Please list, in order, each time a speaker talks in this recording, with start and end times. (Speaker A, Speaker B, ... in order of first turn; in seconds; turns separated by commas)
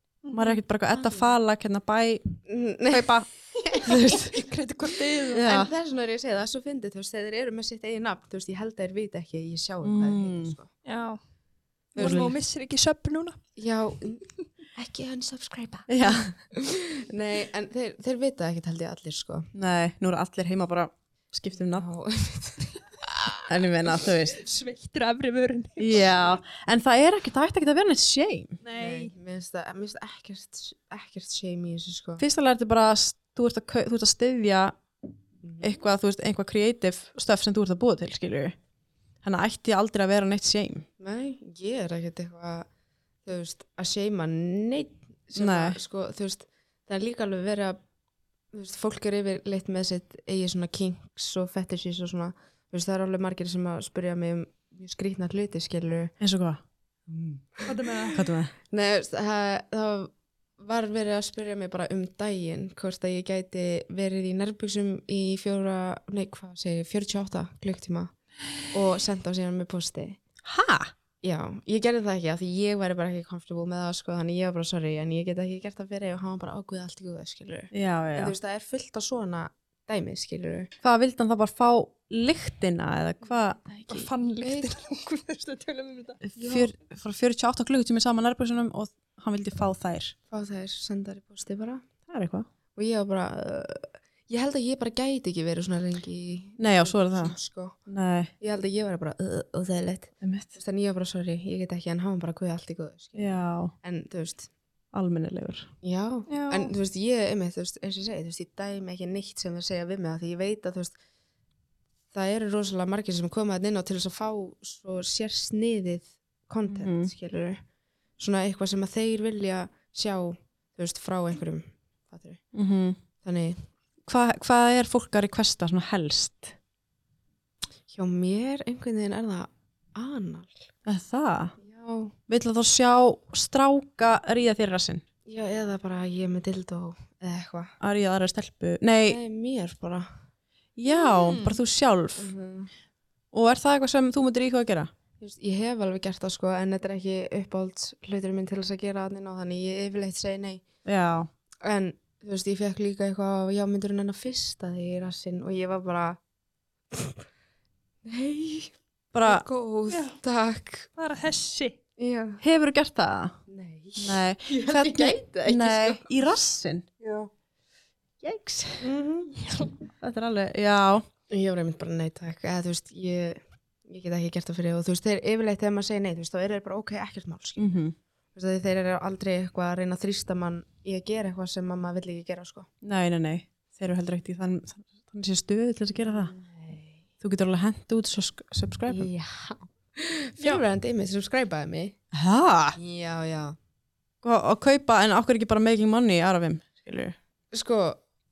Speaker A: 0.2-0.6, Speaker B: 0.3-2.4, Speaker C: 0.9-1.3, Speaker C: 2.5-4.3, Speaker B: 2.9-3.3, Speaker A: 3.8-5.5, Speaker B: 3.9-4.3, Speaker B: 5.3-5.7, Speaker C: 5.4-10.7, Speaker B: 9.8-10.6, Speaker A: 10.8-11.2, Speaker C: 12.0-12.3, Speaker A: 12.0-13.4, Speaker B: 12.0-12.3, Speaker C: 13.6-19.5, Speaker B: 15.9-16.3, Speaker B: 19.5-21.9, Speaker C: 21.6-23.5, Speaker B: 23.5-24.4, Speaker A: 24.3-26.1, Speaker B: 25.8-28.6, Speaker A: 28.6-29.1, Speaker C: 28.8-32.2, Speaker B: 32.2-34.8, Speaker C: 35.4-35.8, Speaker B: 35.6-38.6, Speaker B: 39.2-40.9, Speaker C: 41.0-42.7, Speaker C: 43.2-47.8, Speaker B: 45.4-45.8, Speaker C: 48.5-56.1, Speaker B: 56.2-56.6, Speaker C: 57.1-58.1, Speaker A: 57.6-58.2, Speaker B: 58.1-58.5, Speaker C: 58.7-68.1, Speaker C: 68.7-70.2, Speaker B: 70.5-70.9, Speaker C: 71.2-80.7, Speaker B: 77.7-78.3, Speaker B: 80.8-83.6, Speaker C: 83.6-84.8, Speaker A: 83.9-86.2, Speaker B: 86.2-90.2, Speaker C: 86.4-86.7, Speaker C: 90.3-91.8, Speaker B: 92.1-92.5, Speaker C: 92.8-97.8, Speaker B: 96.6-97.4, Speaker B: 97.9-98.3, Speaker C: 98.4-103.3, Speaker B: 100.2-100.5, Speaker B: 103.2-103.7, Speaker C: 103.8-104.5, Speaker B: 104.9-105.7, Speaker C: 105.8-111.0, Speaker A: 106.3-106.7, Speaker C: 112.1-117.6, Speaker B: 116.7-117.1, Speaker C: 118.2-122.4, Speaker B: 122.5-123.0, Speaker C: 123.2-123.6, Speaker B: 124.1-126.6, Speaker C: 127.9-130.7, Speaker B: 130.9-131.6, Speaker C: 131.6-132.2, Speaker B: 132.3-135.0, Speaker C: 135.3-137.7, Speaker B: 137.8-139.2, Speaker C: 139.1-140.1, Speaker B: 140.8-142.3, Speaker C: 142.2-142.7, Speaker B: 143.3-144.9, Speaker C: 145.2-150.6, Speaker B: 150.9-151.3, Speaker C: 151.6-156.2, Speaker C: 156.9-157.2, Speaker C: 158.1-160.9, Speaker B: 159.1-159.4, Speaker A: 159.9-160.2, Speaker A: 161.0-161.8, Speaker C: 162.0-162.4, Speaker B: 162.4-163.4, Speaker C: 163.5-166.1, Speaker B: 164.0-166.9, Speaker B: 168.2-168.9, Speaker C: 168.8-169.4, Speaker A: 169.4-169.7, Speaker B: 170.0-171.1, Speaker C: 171.3-177.8, Speaker B: 177.6-177.9, Speaker C: 178.3-182.7, Speaker B: 182.8-186.3, Speaker C: 186.0-187.0, Speaker B: 187.2-189.1, Speaker C: 188.9-192.0, Speaker B: 192.1-192.8, Speaker C: 192.8-193.6, Speaker B: 194.2-197.2, Speaker C: 197.5-198.0